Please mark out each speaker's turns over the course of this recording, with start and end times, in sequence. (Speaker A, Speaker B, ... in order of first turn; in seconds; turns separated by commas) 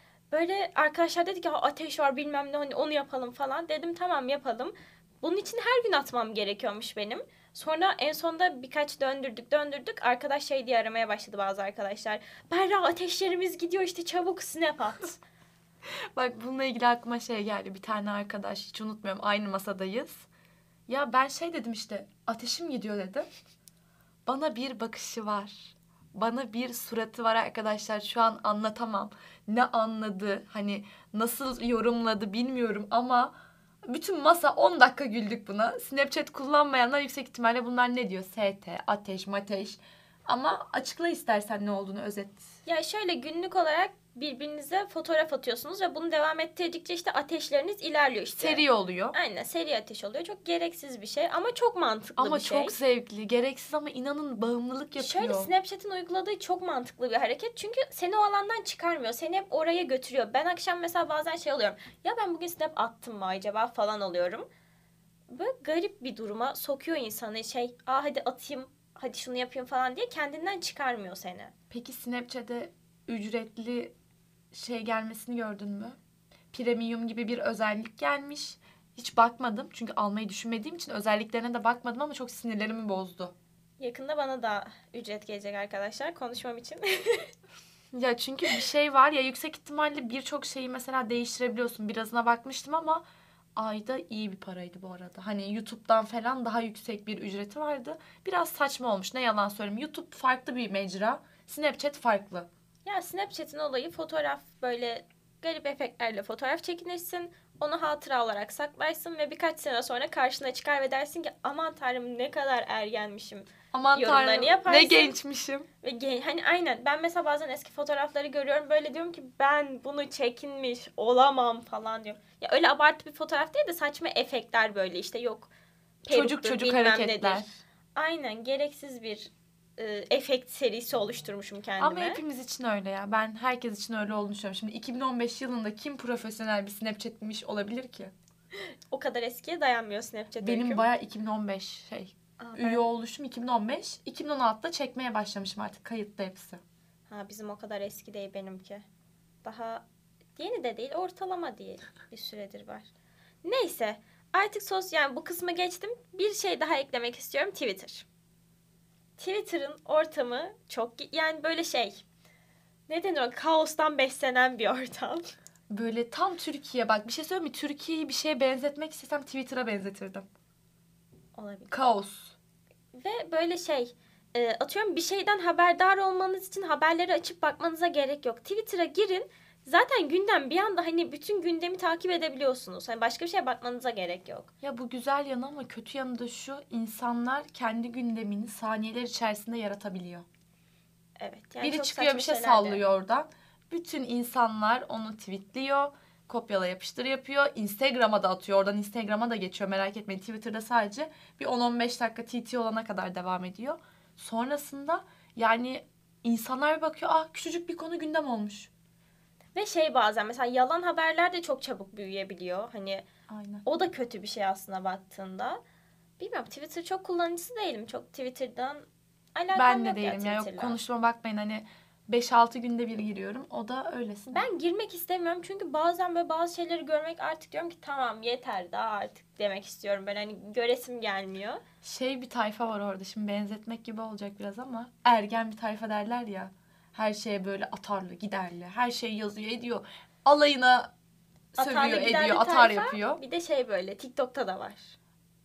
Speaker A: 0.3-15.2, Speaker B: 16.1-20.3, Speaker B: 20.9-23.3, Speaker B: 24.3-33.3, Speaker B: 33.9-42.5, Speaker A: 42.7-52.8, Speaker B: 48.4-49.2, Speaker B: 52.2-55.5, Speaker A: 55.0-64.5, Speaker A: 65.3-71.5, Speaker B: 71.7-73.9, Speaker B: 74.5-76.0, Speaker B: 76.5-83.3, Speaker A: 83.8-87.3, Speaker B: 87.9-93.0, Speaker B: 93.6-102.5, Speaker A: 102.9-115.2, Speaker B: 113.7-115.7, Speaker A: 115.8-125.5, Speaker A: 126.0-132.2, Speaker B: 126.1-127.5, Speaker B: 131.8-138.1, Speaker A: 138.6-140.8, Speaker B: 140.4-146.6, Speaker A: 142.4-142.9, Speaker A: 147.1-148.8, Speaker A: 149.4-149.8, Speaker A: 150.4-152.9, Speaker A: 153.4-158.1, Speaker A: 159.2-162.0, Speaker A: 162.9-165.3, Speaker B: 165.7-170.3, Speaker A: 171.4-171.7, Speaker B: 171.7-172.3, Speaker A: 172.9-184.5, Speaker B: 184.6-190.3, Speaker A: 191.2-192.8, Speaker B: 191.6-208.7, Speaker A: 209.6-213.1, Speaker B: 213.3-213.7, Speaker A: 213.7-215.6, Speaker A: 216.2-220.8, Speaker B: 219.5-224.5, Speaker A: 224.3-231.6, Speaker B: 231.8-240.9, Speaker B: 241.5-243.2, Speaker A: 241.6-244.9